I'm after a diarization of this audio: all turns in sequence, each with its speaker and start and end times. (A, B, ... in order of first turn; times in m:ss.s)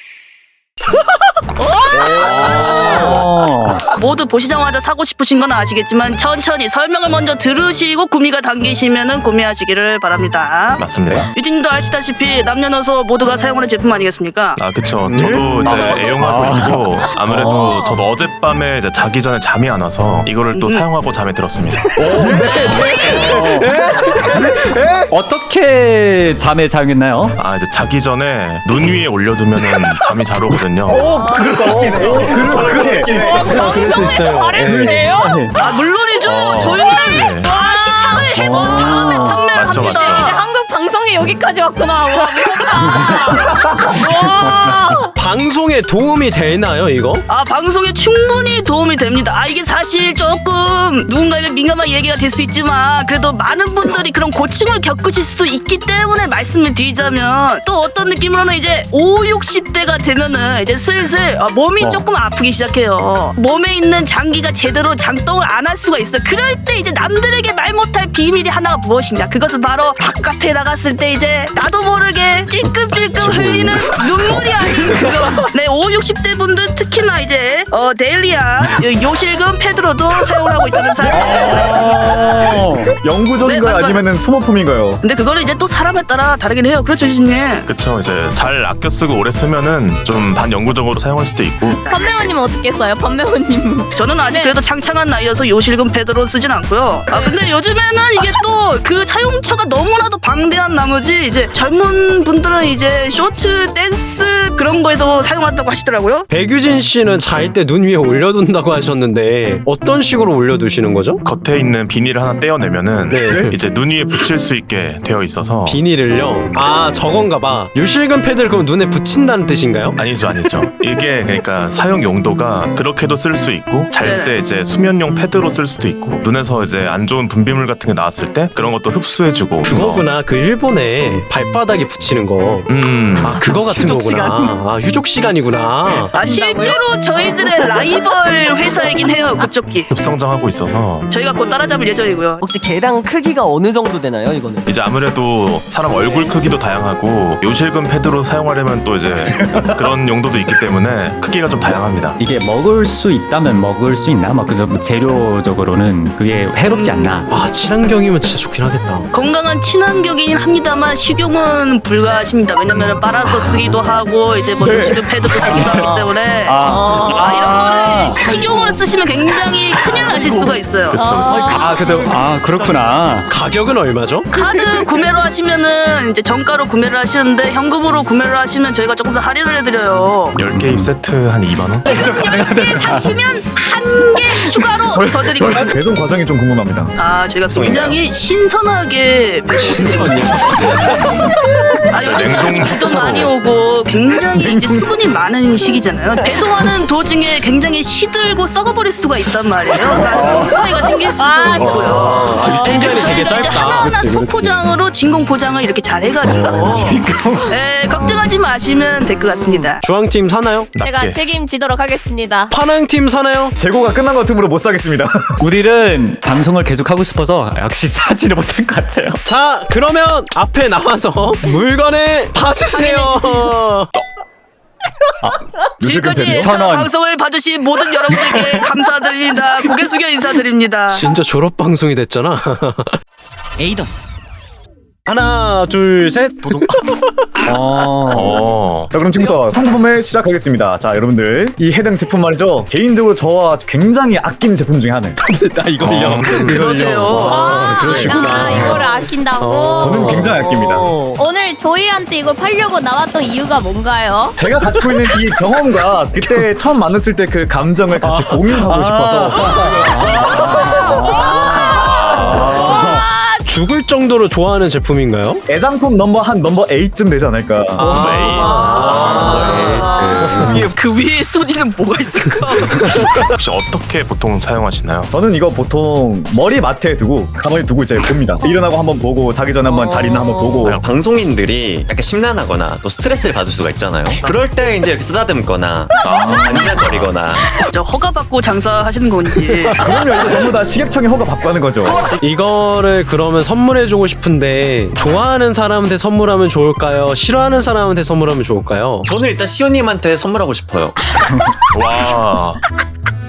0:01.7-0:03.2 A
0:02.0-0:03.8 B
0:03.9-0:14.6 A
0:10.8-0:11.3 C
0:14.6-0:21.9 C
0:15.0-0:16.1 D
0:15.6-0:17.7 B
0:17.6-0:18.0 E
0:20.5-0:20.9 A
0:22.0-0:22.6 D
0:22.0-0:25.1 F
0:22.2-0:23.8 B
0:22.4-0:23.2 A
0:25.1-0:27.4 B
0:27.4-0:31.1 C
0:30.9-0:35.5 F
0:31.0-0:33.6 D
0:31.8-0:33.1 G
0:32.0-0:32.5 E
0:33.0-0:35.4 E
0:35.5-0:40.3 A
0:36.2-0:37.5 C
0:37.4-0:45.1 E
0:38.4-0:39.4 B
0:39.5-0:40.4 C
0:42.8-0:43.2 B
0:43.9-0:44.8 B
0:45.1-0:47.2 F
0:47.3-1:21.9 A
1:13.2-1:14.0 F
1:21.1-1:22.9 B
1:23.0-1:25.0 D
1:23.4-1:24.1 A
1:25.0-1:27.7 A
1:27.7-1:31.8 C
1:31.7-1:32.4 A
1:31.7-1:34.6 E
1:33.9-1:46.3 A
1:46.3-1:51.2 F
1:51.2-1:55.8 C
1:53.1-1:53.6 F
1:53.2-1:53.5 D
1:55.6-2:00.0 F
2:00.0-2:10.1 C
2:04.0-2:04.4 A
2:09.6-2:12.7 F
2:12.7-2:13.4 C
2:13.2-2:16.1 F
2:13.3-2:14.6 G
2:16.1-2:17.4 E
2:16.1-2:19.9 A
2:19.9-2:21.1 C
2:21.1-2:22.4 A
2:22.4-2:24.7 G
2:24.6-2:32.2 C
2:25.9-2:26.3 E
2:29.2-2:29.8 D
2:32.2-2:37.3 B
2:36.6-2:37.2 A
2:37.3-2:39.1 F
2:39.1-2:51.0 A
2:42.7-2:43.0 C
2:43.2-2:43.8 B
2:44.6-2:45.1 D
2:45.3-2:48.3 B
2:46.6-2:47.0 G
2:48.2-2:48.6 G
2:50.9-2:51.5 C
2:50.9-2:51.8 E
2:51.5-2:53.3 B
2:53.3-2:54.4 F
2:54.3-3:00.4 A
3:00.4-3:01.9 C
3:00.4-3:00.9 B
3:01.8-3:05.8 A
3:01.9-3:03.1 B
3:05.4-3:06.9 D
3:07.0-3:10.3 A
3:07.4-3:08.0 H
3:09.6-3:11.2 F
3:11.9-3:29.8 A
3:12.0-3:13.3 C
3:14.3-3:15.0 D
3:21.6-3:24.2 F
3:21.6-3:22.8 C
3:22.3-3:23.6 E
3:26.4-3:27.5 B
3:29.3-3:29.7 G
3:29.8-3:30.7 F
3:30.7-3:31.2 C
3:30.8-3:32.5 E
3:32.5-3:33.5 F
3:33.6-3:35.3 D
3:35.4-3:39.2 B
3:39.2-3:43.9 F
3:42.7-3:43.3 E
3:45.8-3:46.5 D
3:45.8-3:51.0 A
3:46.2-3:46.9 B
3:48.2-3:48.8 B
3:50.9-3:53.0 F
3:55.1-3:57.3 F
3:57.5-3:58.4 B
3:58.1-3:58.9 C
3:58.9-4:05.2 D
4:05.2-4:10.4 F
4:05.8-4:07.3 D
4:05.8-4:06.7 C
4:06.5-4:08.1 A
4:07.2-4:10.3 E
4:07.8-4:08.1 D
4:09.8-4:10.9 D
4:10.1-4:11.2 G
4:11.1-4:14.4 E
4:14.4-4:19.6 D
4:18.0-4:20.2 F
4:19.6-4:21.5 B
4:21.1-4:23.5 E
4:21.7-4:22.7 C
4:22.2-4:23.0 B
4:22.3-4:22.8 D
4:22.5-4:22.9 F
4:23.4-4:25.4 F
4:25.5-4:28.3 D
4:27.8-4:29.7 F
4:27.8-4:29.3 C
4:28.6-4:33.1 A
4:28.6-4:30.4 B
4:33.3-4:35.1 C
4:35.1-4:40.8 D
4:39.6-4:40.6 G
4:40.6-4:40.9 C
4:40.8-4:47.4 H
4:46.0-4:47.2 C
4:47.6-4:49.9 A
4:49.8-4:52.1 D
4:49.8-4:50.4 F
4:52.2-4:59.1 F
4:59.0-5:01.0 H
5:01.7-5:02.6 C